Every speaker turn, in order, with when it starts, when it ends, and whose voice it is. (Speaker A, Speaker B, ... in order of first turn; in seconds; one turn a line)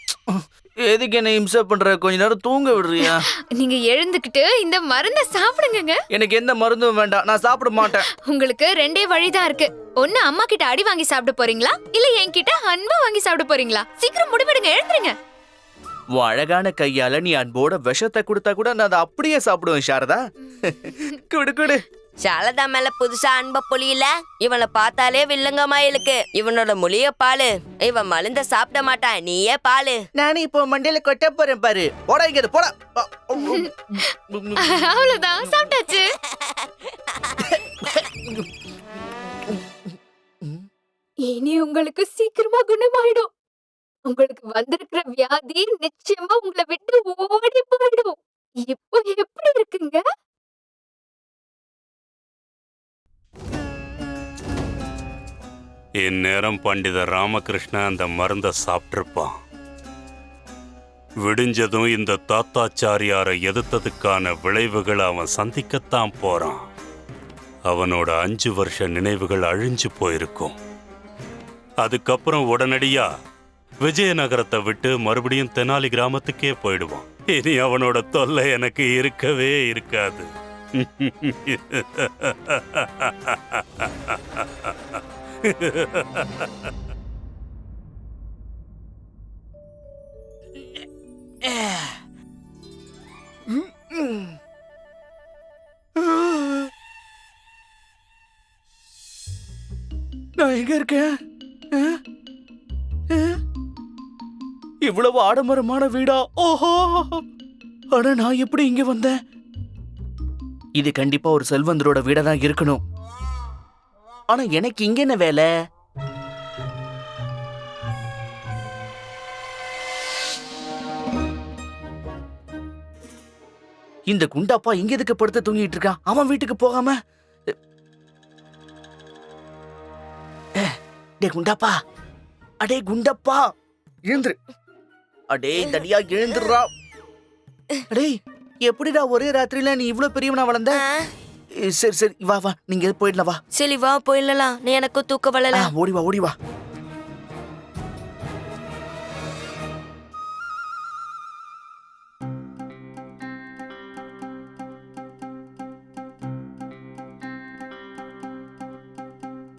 Speaker A: 0.3-3.2
Speaker B: 3.5-6.0
Speaker A: 6.1-8.1
Speaker B: 7.9-15.2
Speaker A: 16.1-21.8
Speaker C: 22.2-30.0
Speaker A: 30.2-34.8
Speaker B: 34.6-36.1
Speaker A: 38.0-38.5
Speaker B: 41.2-43.3
Speaker B: 44.1-50.0
Speaker D: 56.0-59.4
Speaker D: 61.2-66.6
Speaker D: 67.7-70.5
Speaker D: 71.8-73.1
Speaker D: 73.8-86.7
Speaker A: 91.5-91.8
Speaker A: 93.5-94.4
Speaker A: 96.0-96.7
Speaker A: 100.4-101.1
Speaker A: 101.7-102.0
Speaker A: 103.1-103.4
Speaker A: 104.9-107.2
Speaker A: 107.9-109.2
Speaker A: 110.8-112.8
Speaker A: 114.3-115.5
Speaker A: 124.1-127.0
Speaker A: 130.6-131.7
Speaker A: 132.6-133.5
Speaker A: 134.1-134.4
Speaker A: 135.3-136.7
Speaker A: 137.9-140.8
Speaker C: 140.7-141.1
Speaker A: 141.6-143.4
Speaker C: 143.5-145.7
Speaker A: 145.5-146.3